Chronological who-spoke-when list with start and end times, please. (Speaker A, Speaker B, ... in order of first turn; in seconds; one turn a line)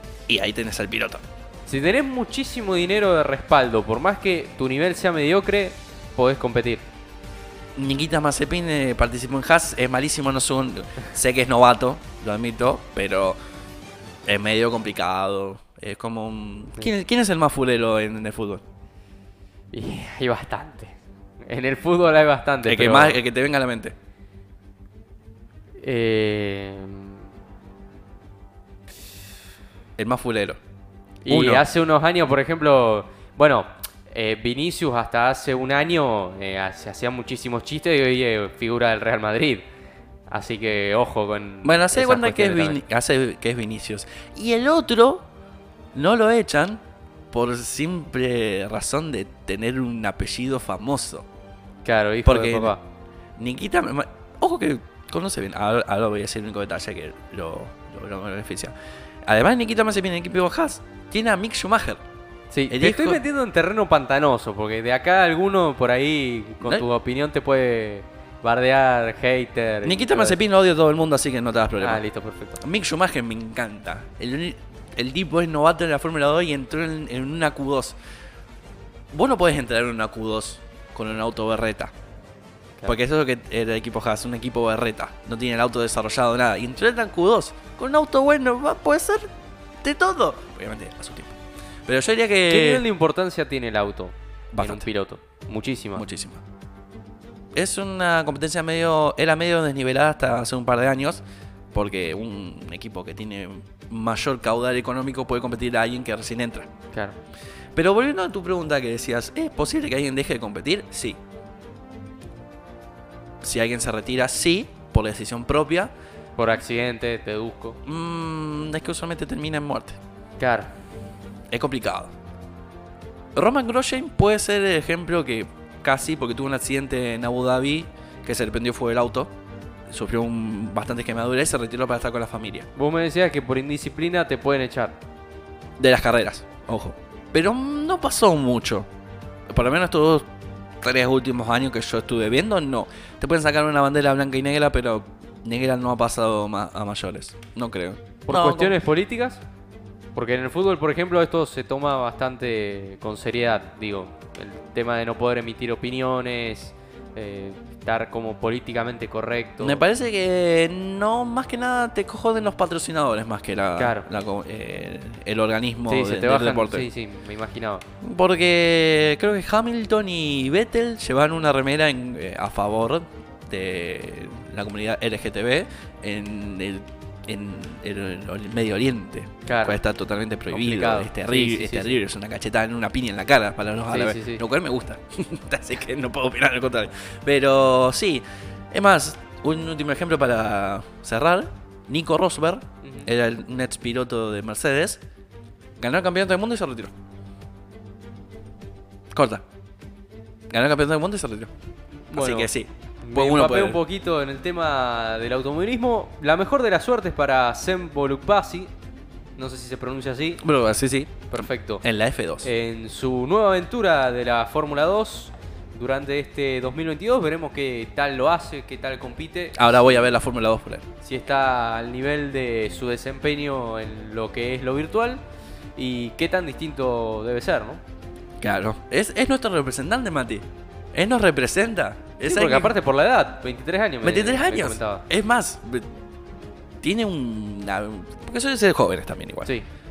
Speaker A: 0.3-1.2
Speaker B: 1.7-6.8
Speaker A: 7.8-13.4
Speaker A: 14.3-18.6
Speaker B: 19.7-23.2
Speaker A: 22.6-23.9
Speaker B: 25.8-27.3
Speaker A: 30.0-30.6
Speaker B: 31.2-39.6
Speaker A: 31.3-31.6
Speaker B: 40.3-42.8
Speaker A: 41.6-45.3
Speaker A: 45.9-51.2
Speaker B: 51.8-52.8
Speaker A: 52.2-52.7
Speaker A: 53.4-58.7
Speaker A: 59.3-62.0
Speaker B: 62.5-70.4
Speaker A: 62.7-63.2
Speaker A: 69.8-72.0
Speaker B: 71.8-72.6
Speaker A: 72.6-78.0
Speaker A: 79.1-81.9
Speaker A: 82.8-89.3
Speaker A: 89.8-92.8
Speaker B: 92.5-96.0
Speaker A: 94.5-94.8
Speaker A: 95.9-96.4
Speaker A: 97.5-101.2
Speaker A: 101.7-106.7
Speaker A: 107.7-111.2
Speaker A: 113.4-115.9
Speaker B: 116.4-117.8
Speaker A: 117.8-120.0
Speaker B: 120.4-120.7
Speaker A: 121.5-122.1
Speaker A: 123.3-129.3
Speaker A: 129.9-132.7
Speaker B: 132.8-135.0
Speaker A: 135.8-138.9
Speaker A: 139.5-140.3
Speaker A: 140.8-148.8
Speaker B: 148.3-149.4
Speaker B: 150.1-159.8
Speaker A: 159.6-166.9
Speaker B: 163.8-164.1
Speaker B: 165.9-167.8
Speaker A: 168.0-195.0
Speaker B: 179.5-179.8
Speaker B: 180.5-182.0
Speaker B: 183.9-184.4
Speaker B: 192.8-193.1
Speaker A: 195.8-196.9
Speaker A: 199.1-199.4
Speaker A: 200.5-201.5
Speaker B: 202.1-202.5
Speaker A: 202.1-203.8
Speaker B: 203.0-208.7
Speaker B: 209.4-210.4
Speaker A: 210.4-212.5
Speaker B: 211.3-211.8
Speaker B: 212.4-220.1
Speaker A: 219.5-220.8
Speaker B: 221.0-225.2
Speaker B: 225.8-227.8
Speaker A: 228.4-232.7
Speaker B: 232.2-235.0
Speaker A: 234.0-235.8
Speaker A: 236.8-239.5